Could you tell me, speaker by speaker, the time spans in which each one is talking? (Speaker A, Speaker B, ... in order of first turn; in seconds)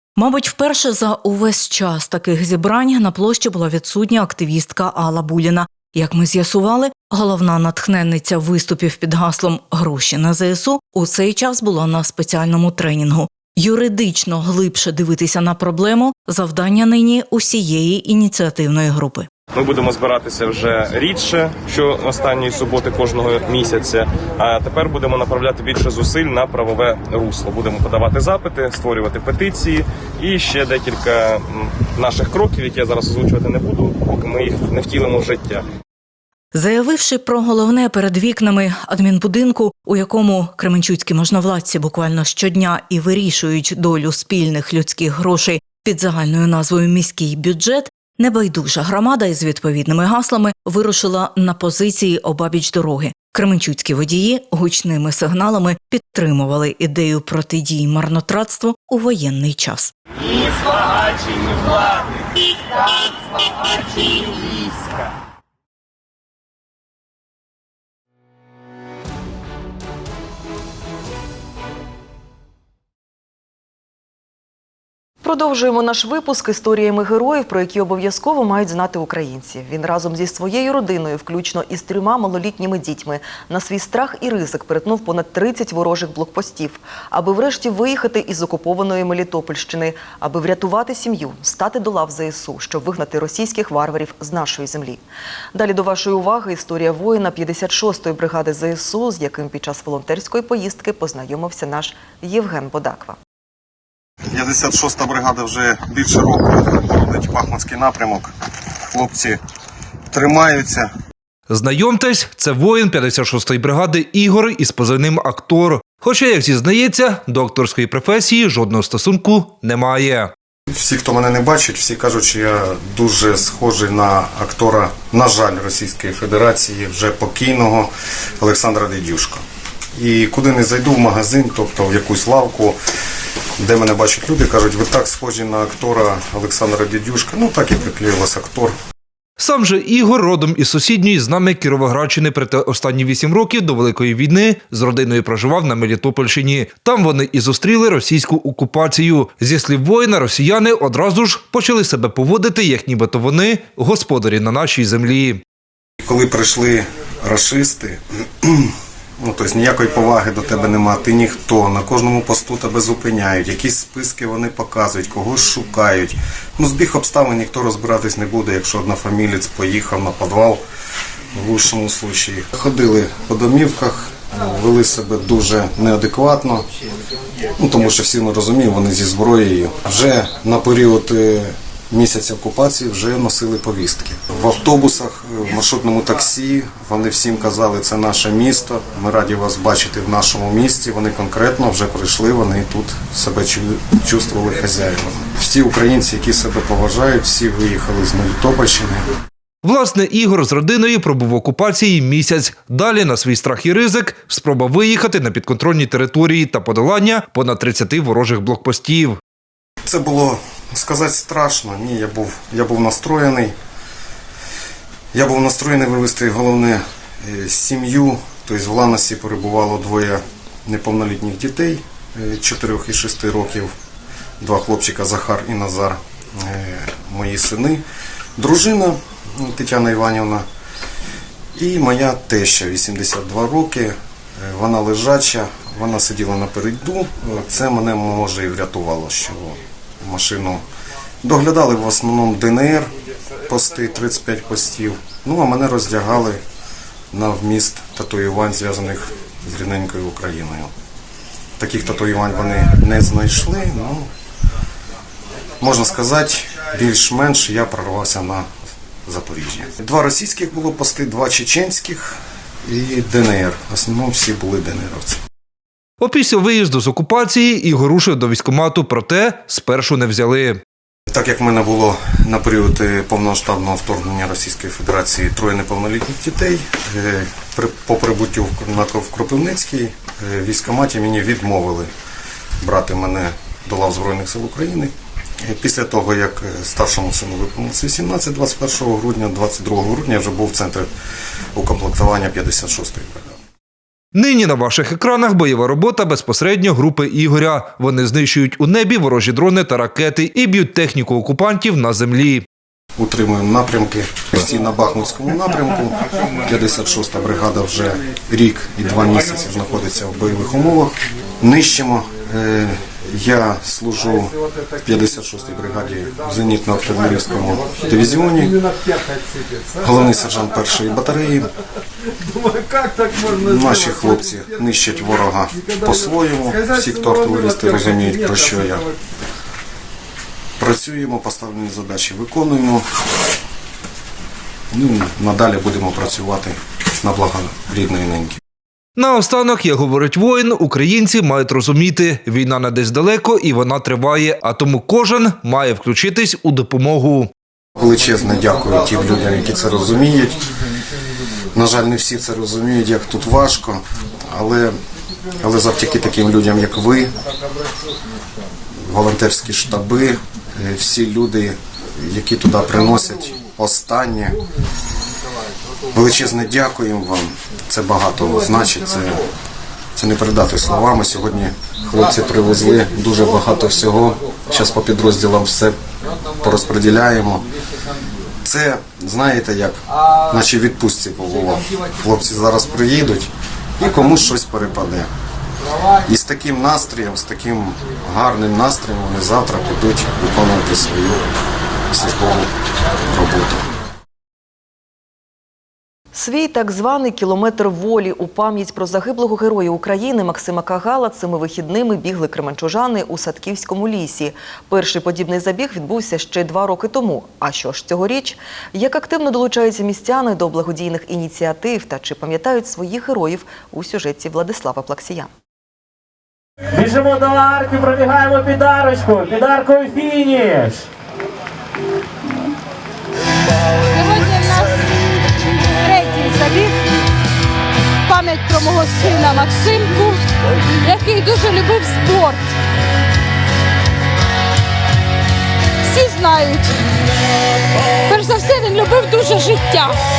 Speaker A: 0.2-19.3, 36.5-59.9
Speaker B: 19.5-35.6
Speaker C: 75.2-95.0, 95.5-103.2, 396.1-415.3
Speaker D: 104.3-108.3, 108.9-109.4, 110.1-110.9, 120.7-129.4, 129.9-132.8, 133.6-138.7, 156.0-170.6, 171.3-176.7, 177.6-199.0, 209.8-213.5, 215.1-223.7, 224.4-227.8, 228.4-230.4, 231.5-240.6, 241.2-242.9, 243.5-246.4, 247.1-250.7, 251.6-254.1, 255.6-258.5, 259.0-265.2, 271.1-281.9, 282.6-290.9, 291.5-293.4, 303.0-318.6, 319.8-321.5, 323.2-328.9, 330.6-332.9, 334.7-338.4, 347.8-350.4, 351.5-354.8, 355.4-357.1, 358.7-364.4, 365.9-369.2, 369.9-375.8, 376.4-377.5, 378.4-385.1, 386.0-391.3, 391.9-393.6
Speaker E: 111.5-120.3, 139.4-155.4, 199.6-209.2, 266.0-270.6, 294.1-302.4, 338.9-347.3
Speaker F: 416.8-420.8
Speaker G: 423.9-424.9, 425.8-426.8, 428.1-430.2, 430.8-432.4, 435.8-436.7, 438.1-440.0